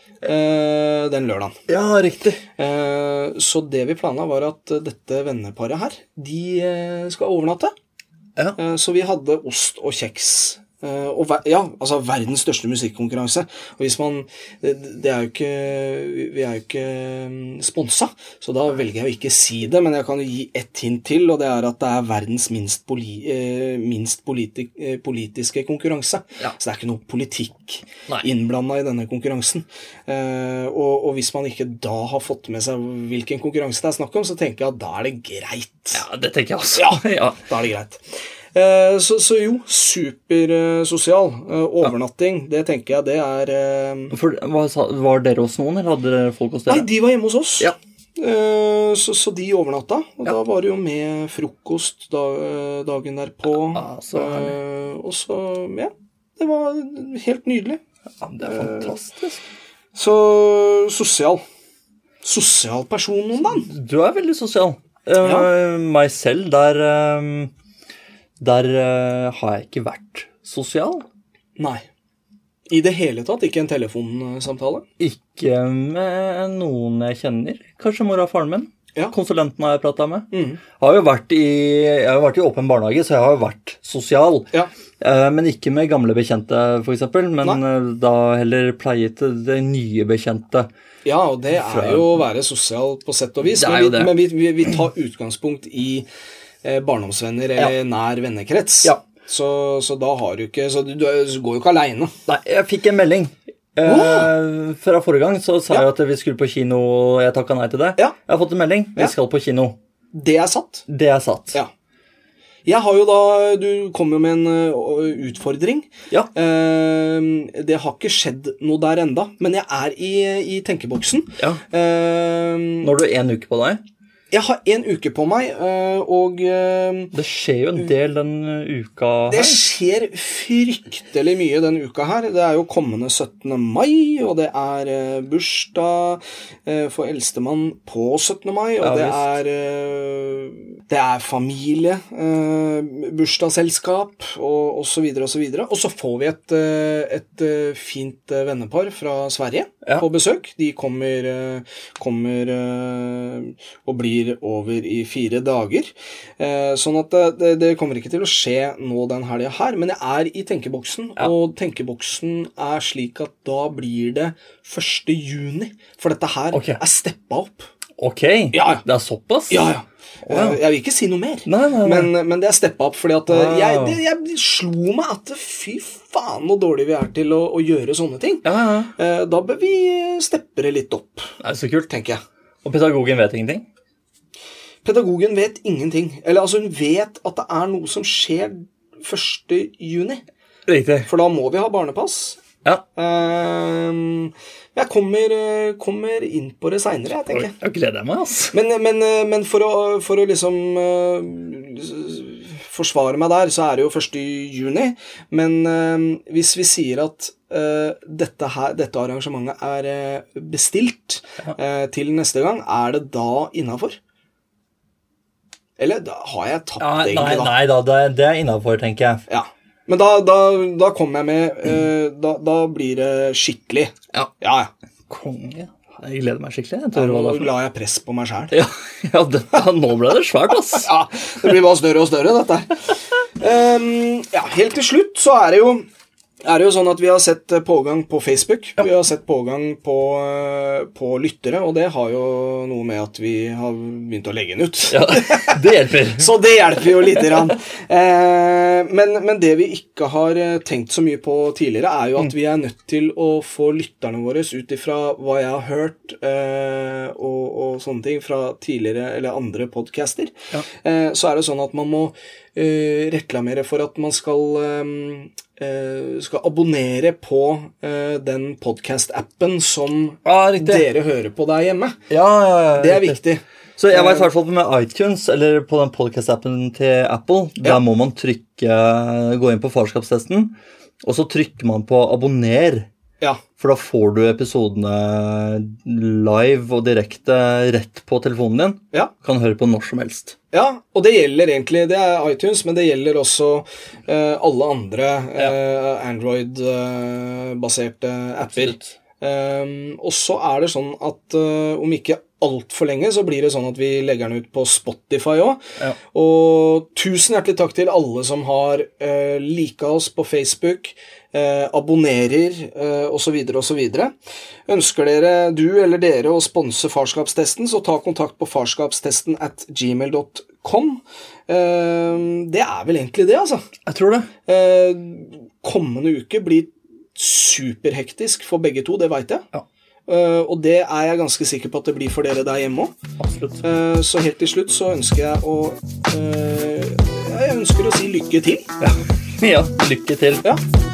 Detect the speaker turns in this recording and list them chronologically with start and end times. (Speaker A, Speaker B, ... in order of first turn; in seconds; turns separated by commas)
Speaker A: 0.2-1.6, Speaker B: 1.7-2.4, Speaker A: 2.6-7.7, Speaker A: 8.6-36.0, Speaker B: 35.9-37.4, Speaker A: 36.8-38.0, Speaker A: 38.5-44.1, Speaker B: 44.1-46.9, Speaker A: 46.7-57.8, Speaker B: 53.6-54.5, Speaker B: 58.2-59.4, Speaker A: 58.4-58.9, Speaker A: 60.0-61.4, Speaker A: 62.2-63.7, Speaker B: 63.6-67.5, Speaker A: 65.2-65.5, Speaker B: 68.4-71.1, Speaker A: 71.6-71.8, Speaker A: 72.7-74.9, Speaker B: 75.0-90.7, Speaker A: 80.3-80.6, Speaker A: 91.0-96.1, Speaker B: 91.5-92.1, Speaker B: 93.6-94.1, Speaker A: 96.6-102.1, Speaker B: 102.3-109.8, Speaker A: 103.8-104.3, Speaker A: 110.1-110.9, Speaker B: 110.9-111.6, Speaker A: 112.7-122.9, Speaker B: 122.8-123.8, Speaker A: 124.3-127.1, Speaker B: 127.1-129.6, Speaker A: 129.3-167.7, Speaker B: 138.8-139.3, Speaker B: 166.5-166.8, Speaker B: 168.0-169.7, Speaker A: 168.5-168.8, Speaker A: 169.5-181.3, Speaker B: 170.3-170.6, Speaker B: 171.5-172.1, Speaker B: 173.3-174.0, Speaker B: 178.4-178.9, Speaker B: 181.4-182.0, Speaker A: 181.9-182.2, Speaker B: 182.6-183.7, Speaker A: 184.8-190.2, Speaker B: 190.7-191.1, Speaker A: 191.1-192.4, Speaker A: 192.9-197.6, Speaker B: 197.3-198.6, Speaker A: 198.5-214.0, Speaker A: 215.8-217.6, Speaker B: 216.8-219.2, Speaker A: 219.3-224.7, Speaker B: 225.1-227.5, Speaker A: 226.9-228.6, Speaker B: 228.5-230.9, Speaker A: 230.8-235.9, Speaker A: 236.4-272.0, Speaker B: 244.9-247.5, Speaker B: 270.2-270.9, Speaker B: 272.1-273.2, Speaker A: 272.8-274.3, Speaker B: 273.8-282.9, Speaker B: 283.6-290.4, Speaker A: 290.5-305.6, Speaker B: 298.4-299.0, Speaker A: 306.1-314.1, Speaker A: 314.7-323.7, Speaker B: 323.9-324.3, Speaker A: 324.5-329.5, Speaker A: 330.1-332.9, Speaker B: 333.2-333.6, Speaker A: 333.6-338.7, Speaker B: 338.8-340.5